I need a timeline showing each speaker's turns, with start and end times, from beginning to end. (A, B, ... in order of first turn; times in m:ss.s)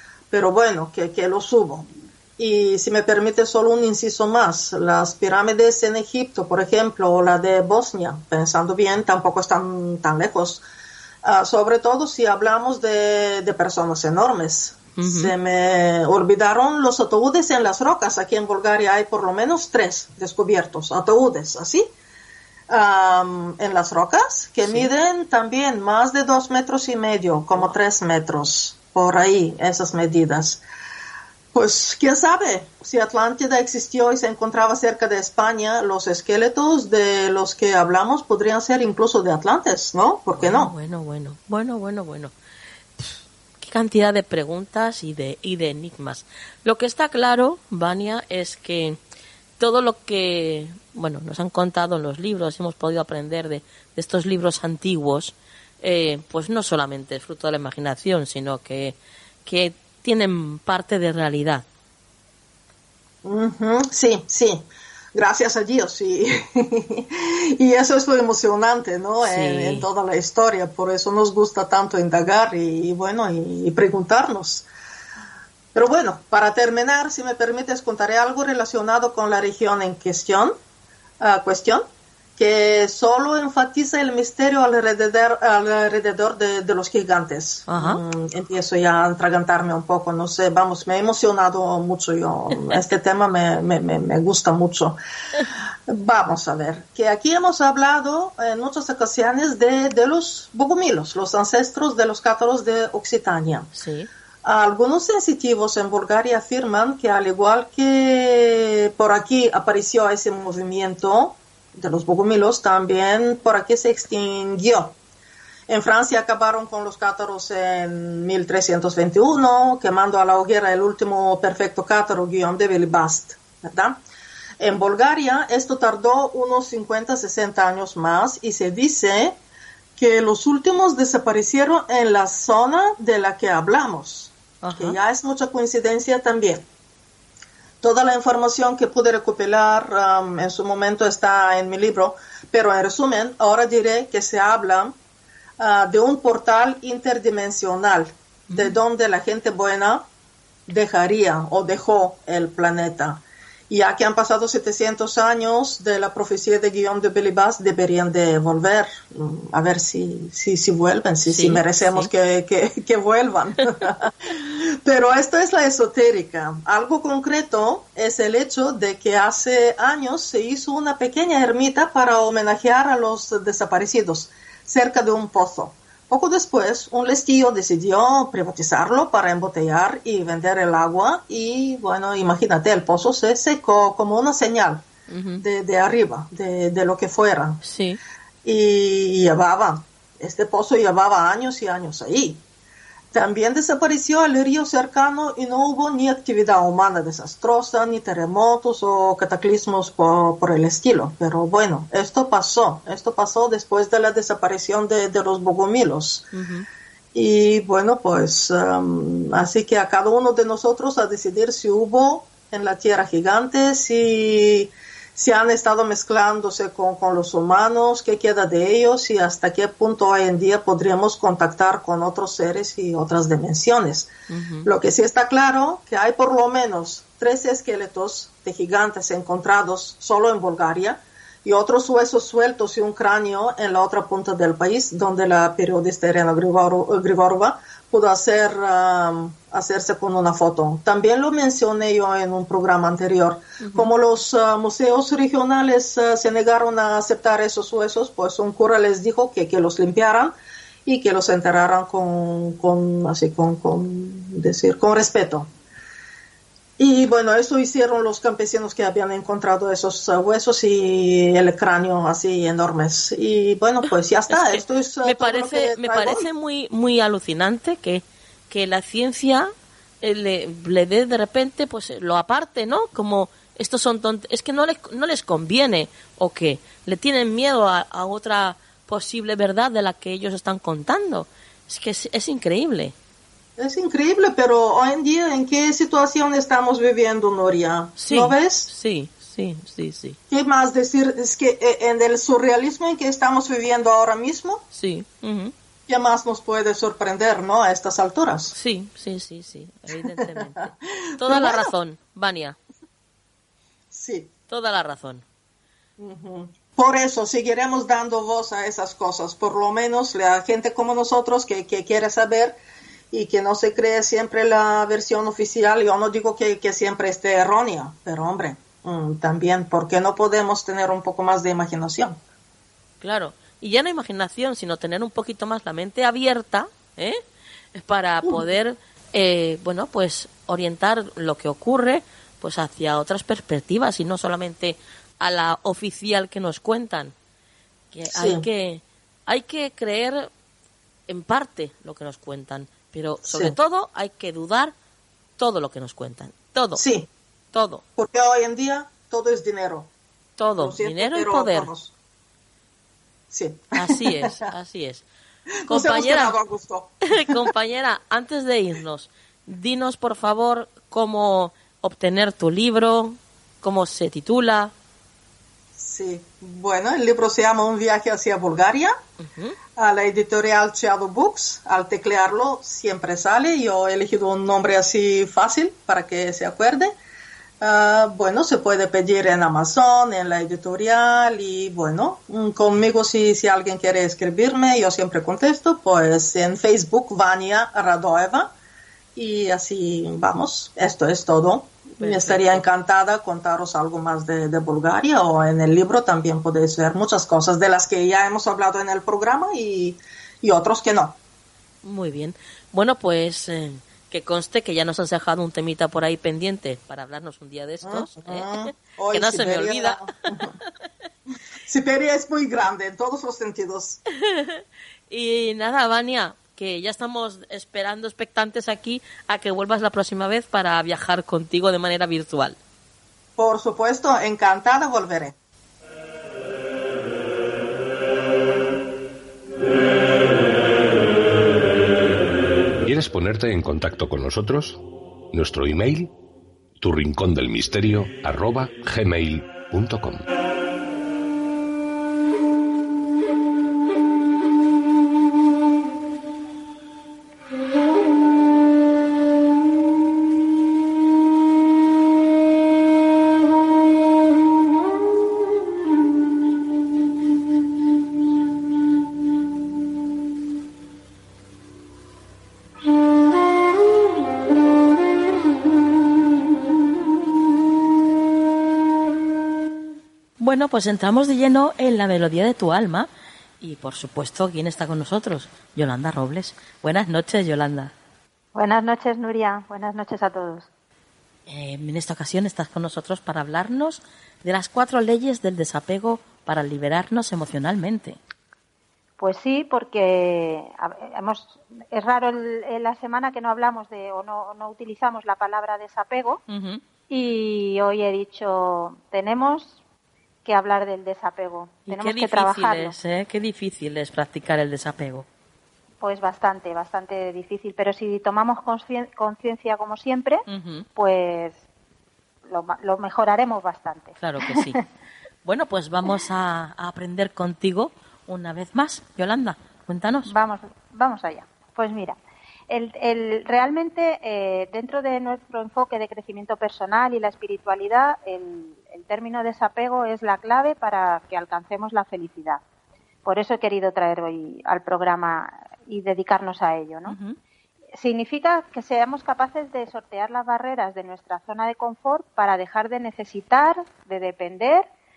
0:00.3-0:10.6 A
0:11.2-0:21.9 A
0:15.0-0:15.3 B
0:22.7-0:30.6 A
0:24.6-0:24.9 B
0:31.5-0:40.7 A
0:40.4-0:42.3 B
0:43.0-0:49.0 B
0:49.6-1:01.6 B
1:03.2-1:14.7 A
1:09.2-1:09.9 B
1:15.7-1:20.6 A
1:21.2-1:35.0 A
1:27.7-1:28.0 B
1:35.9-1:43.7 A
1:43.7-1:44.1 B
1:44.4-1:55.0 A
1:55.7-2:04.0 A
2:04.6-2:09.4 A
2:10.0-2:16.7 A
2:14.6-2:15.0 B
2:17.8-2:25.0 A
2:25.6-2:30.1 A
2:28.5-2:28.8 B
2:30.7-3:04.9 A
2:41.2-2:42.1 B
3:05.1-3:05.4 B
3:05.4-3:07.6 A
3:07.6-3:08.0 B
3:08.4-3:12.4 A
3:13.1-3:26.3 A
3:26.3-3:26.6 B
3:27.1-3:44.1 A
3:44.3-3:44.7 B
3:44.6-4:15.5 A
4:03.6-4:03.9 B
4:16.8-4:26.3 A
4:24.3-4:42.9 B
4:43.6-4:48.7 A
4:48.0-4:50.2 B
4:50.3-4:54.6 A
4:54.7-4:55.5 B
4:55.9-4:58.5 A
4:58.5-5:02.6 B
5:01.2-5:01.7 A
5:03.9-5:04.3 A
5:04.5-5:05.2 B
5:06.0-5:12.6 A
5:13.1-5:22.2 A
5:23.0-5:27.2 B
5:27.7-5:37.1 B
5:37.9-5:40.3 B
5:38.1-5:38.4 A
5:41.1-5:44.7 B
5:43.2-5:43.6 A
5:45.4-5:46.8 B
5:46.7-5:47.1 A
5:47.5-5:47.8 B
5:48.0-5:49.9 A
5:50.4-5:51.7 B
5:50.6-5:51.9 A
5:53.3-5:54.4 A
5:53.7-5:55.0 B
5:55.7-5:56.4 B
5:55.7-5:57.5 A
5:57.1-6:04.7 B
6:05.7-6:09.0 A
6:09.2-6:09.6 B
6:09.8-6:17.0 A
6:17.6-6:28.5 A
6:29.1-6:41.2 A
6:32.0-6:32.6 B
6:41.8-6:50.0 B
6:47.8-6:50.5 A
6:51.6-6:54.0 A
6:54.2-7:02.6 B
7:03.4-7:05.3 A
7:12.8-7:16.1 C
7:16.8-7:20.2 C
7:50.4-7:53.1 B
7:53.6-7:57.9 B
7:58.5-8:00.7 D
8:01.5-8:08.2 B
8:09.2-8:16.4 D
8:16.5-8:16.8 B
8:17.1-8:19.8 D
8:20.4-8:23.0 D
8:21.9-8:25.2 B
8:26.0-8:30.4 D
8:30.5-8:30.8 B
8:31.0-8:31.6 D
8:32.5-8:34.8 D
8:34.2-8:34.8 B
8:35.4-8:40.3 B
8:40.2-8:42.2 D
8:42.7-8:52.6 D
8:53.2-8:57.1 D
8:57.0-8:57.4 B
8:58.0-9:04.8 D